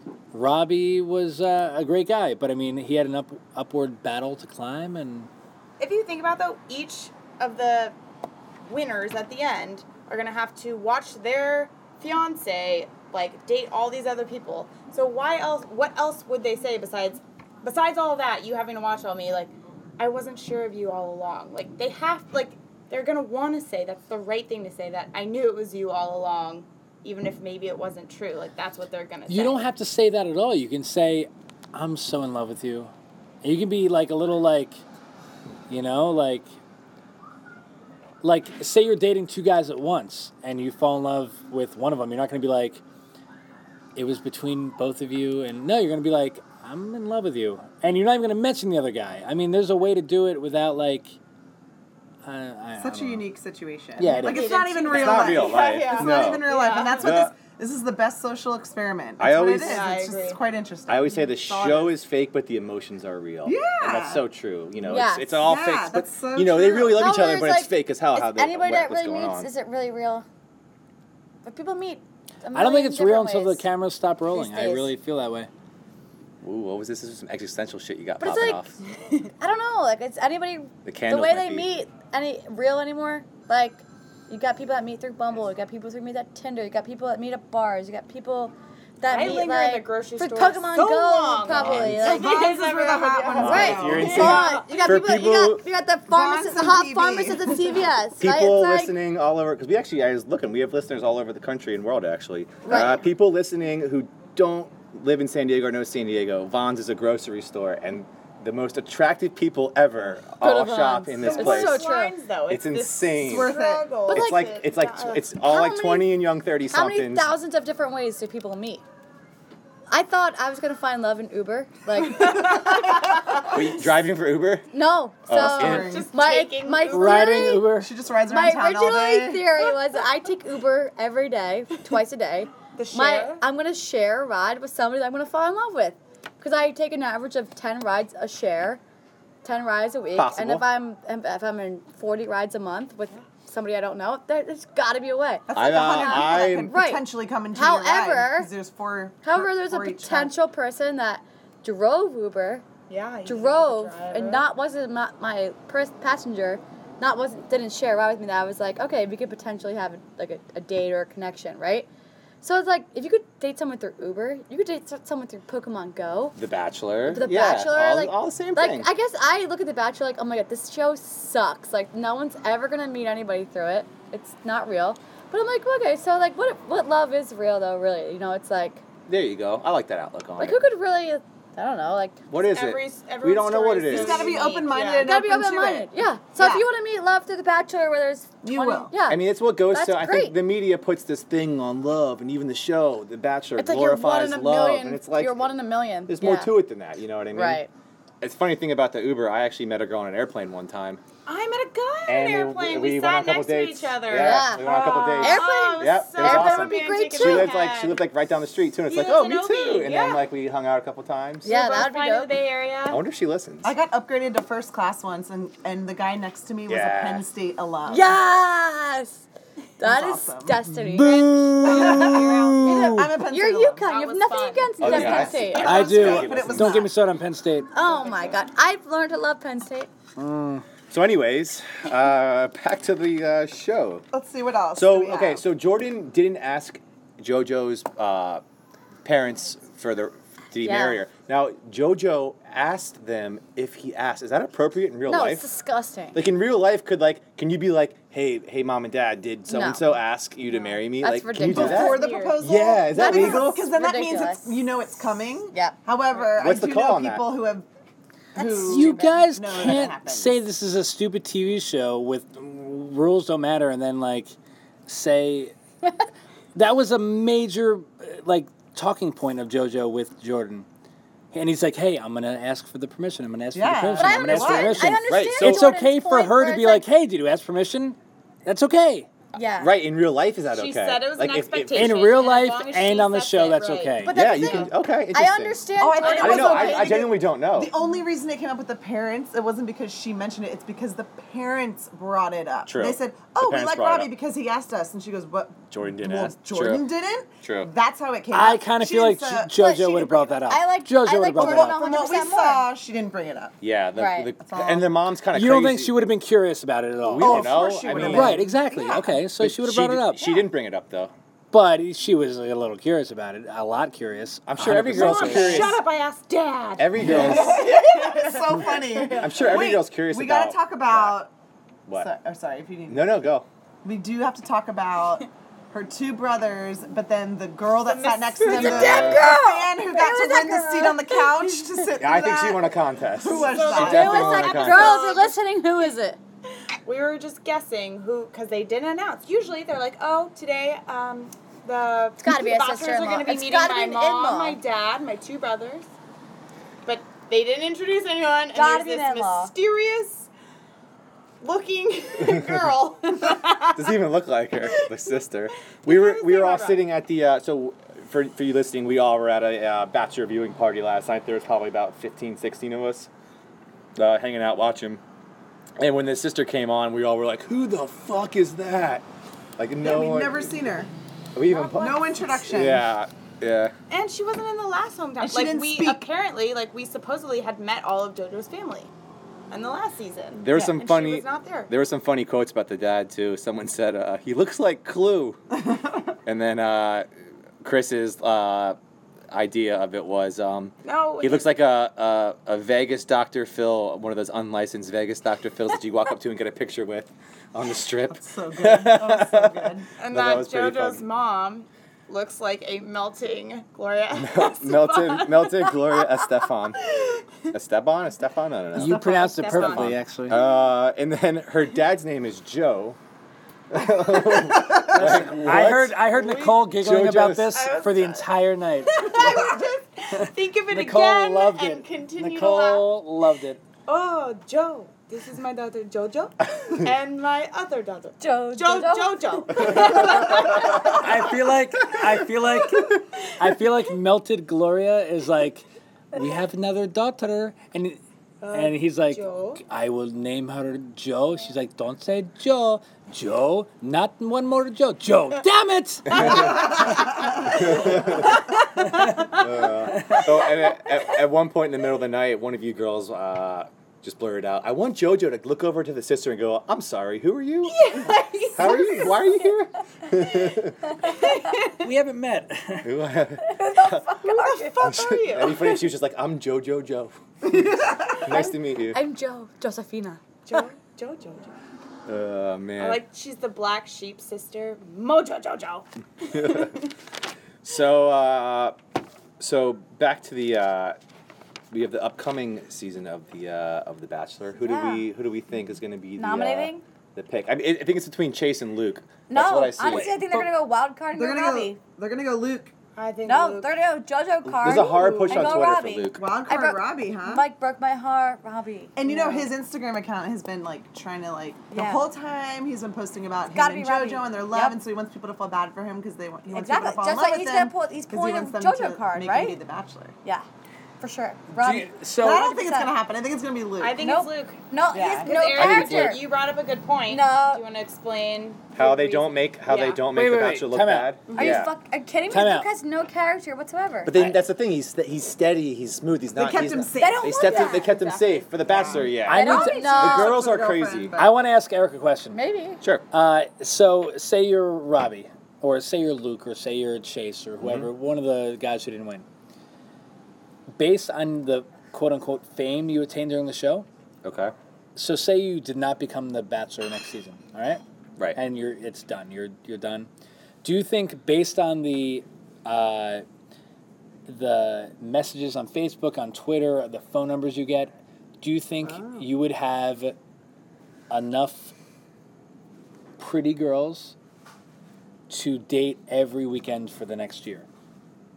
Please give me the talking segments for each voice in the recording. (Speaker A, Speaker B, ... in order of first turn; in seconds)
Speaker A: 0.3-5.3, 29.3-32.9, 33.4-34.8, 35.7-36.5, 38.2-42.8, 44.0-51.1, 52.2-53.2, 54.0-54.5, 72.5-75.5, 91.5-92.0, 93.8-94.4, 126.9-127.9, 220.6-223.1, 225.6-227.7, 230.2-230.6, 258.7-264.4, 264.9-265.5, 266.5-270.7, 271.3-279.1, 281.7-284.1, 298.3-301.8, 305.3-310.2, 311.5-315.7, 317.0-317.3, 408.7-410.4, 414.9-419.3, 420.1-423.6, 430.8-446.7, 448.8-449.1, 461.8-462.9, 511.5-512.5, 520.1-521.2, 522.3-522.7, 529.2-530.0, 531.2-532.4, 533.1-539.2, 540.8-543.9, 545.0-547.8, 548.3-550.1, 550.6-553.2, 554.2-560.1, 561.1-561.7, 563.2-564.1, 565.3-567.6
Speaker B: 5.8-8.0, 8.7-29.6, 54.1-57.2, 59.6-60.4, 89.1-94.8, 111.2-115.2, 125.4-127.4, 132.8-133.4, 152.9-154.4, 182.5-185.1, 201.2-208.0, 208.9-210.3, 211.4-213.0, 221.6-222.3, 223.8-225.3, 228.0-228.3, 251.6-252.4, 280.5-284.6, 286.0-286.5, 314.9-319.6, 327.7-329.3, 333.3-335.3, 336.8-345.9, 346.8-350.3, 351.4-353.9, 355.8-356.9, 371.4-372.4, 373.9-378.9, 379.5-381.7, 390.8-391.4, 400.0-405.8, 409.0-410.0, 416.1-416.7, 417.5-418.3, 418.9-423.0, 423.9-431.1, 438.4-439.6, 446.1-450.7, 457.6-459.0, 461.0-461.7, 464.2-465.8, 470.4-471.5, 472.8-476.9, 492.9-493.7, 513.8-520.0
Speaker C: 52.8-61.9, 63.4-64.2, 65.4-67.0, 92.0-94.5, 96.1-97.7, 113.2-114.0, 125.3-126.1, 127.7-129.6, 145.5-150.3, 183.9-186.7, 188.4-188.9, 213.6-218.2, 219.8-220.6, 221.6-223.9, 224.9-226.9, 234.1-235.4, 251.4-257.6, 258.3-260.4, 273.5-275.0, 284.1-284.7, 285.8-300.1, 301.3-303.5, 304.4-304.9, 307.2-309.1, 317.1-321.3, 321.9-323.2, 323.8-334.5, 369.8-370.9, 371.8-372.9, 375.2-376.0, 385.7-386.0, 398.1-399.9, 408.9-409.3, 419.2-419.6, 467.4-468.1, 491.1-492.7, 494.6-497.5, 498.9-510.2, 512.2-514.0, 514.9-515.4, 521.3-521.6, 526.3-531.3, 558.8-559.2
Speaker D: 54.9-56.5, 57.0-57.3, 59.2-59.9, 60.9-69.5, 76.4-78.8, 80.8-81.7, 93.4-95.6, 98.2-111.9, 112.5-113.5, 114.1-117.3, 123.5-124.7, 125.2-126.0, 140.1-140.7, 145.5-146.7, 166.4-168.9, 179.1-180.6, 182.3-184.4, 189.1-195.4, 196.1-197.6, 198.2-201.0, 202.1-211.5, 212.9-213.7, 216.7-217.2, 224.8-226.9, 230.9-234.0, 234.7-238.4, 239.0-245.5, 246.1-253.7, 256.3-257.2, 275.1-275.7, 279.6-281.9, 284.1-285.6, 286.2-287.7, 292.7-294.1, 295.7-296.9, 297.4-297.7, 303.6-306.0, 307.0-311.1, 314.5-315.8, 316.8-317.7, 319.2-321.2, 322.9-323.4, 328.6-329.2, 332.0-335.1, 353.7-363.1, 363.9-365.0, 365.8-369.0, 369.6-370.5, 371.3-373.7, 380.3-385.4, 386.2-387.1, 387.6-388.8, 389.3-401.0, 404.1-406.8, 407.5-413.0, 413.7-416.0, 416.7-417.6, 446.1-446.5, 447.4-448.4, 449.3-457.9, 458.5-460.8, 462.8-464.1, 464.8-467.2, 468.2-469.0, 472.1-473.0, 476.3-476.7, 477.6-478.8, 479.4-481.0, 481.7-490.2, 494.4-496.2, 515.5-516.2, 518.8-521.7, 524.0-531.2, 537.6-537.9, 544.2-544.5
Speaker E: 64.8-65.4, 66.9-70.2, 71.4-73.6, 74.3-74.9, 78.2-78.7, 79.2-92.4, 93.3-98.9, 102.6-103.0, 110.4-112.1, 114.1-114.5, 115.3-116.1, 116.7-118.8, 119.9-123.5, 124.7-127.7, 128.2-138.8, 139.4-148.5, 149.2-152.6, 153.2-161.9, 162.4-166.4, 167.1-178.8, 180.4-182.2, 185.0-190.3, 193.6-196.5, 197.3-197.7, 204.1-207.5, 211.4-212.3, 217.9-219.2, 219.8-225.9, 227.7-229.9, 240.6-241.0, 245.1-246.2, 249.5-249.8, 251.0-252.0, 252.9-254.5, 255.5-255.8, 258.4-258.9, 274.0-276.9, 279.3-279.7, 284.0-287.0, 299.6-302.7, 303.9-304.3, 328.4-331.2, 333.8-336.2, 342.2-344.6, 348.5-349.5, 428.2-430.4, 461.0-461.3, 463.4-464.9, 468.2-470.2, 484.6-485.1, 486.2-486.8, 489.3-491.8, 493.2-499.5, 501.7-502.1, 503.5-504.8, 506.5-509.6, 511.0-513.0, 514.0-516.2, 517.1-517.6, 521.3-524.2, 527.0-528.5, 529.2-530.4, 532.3-532.8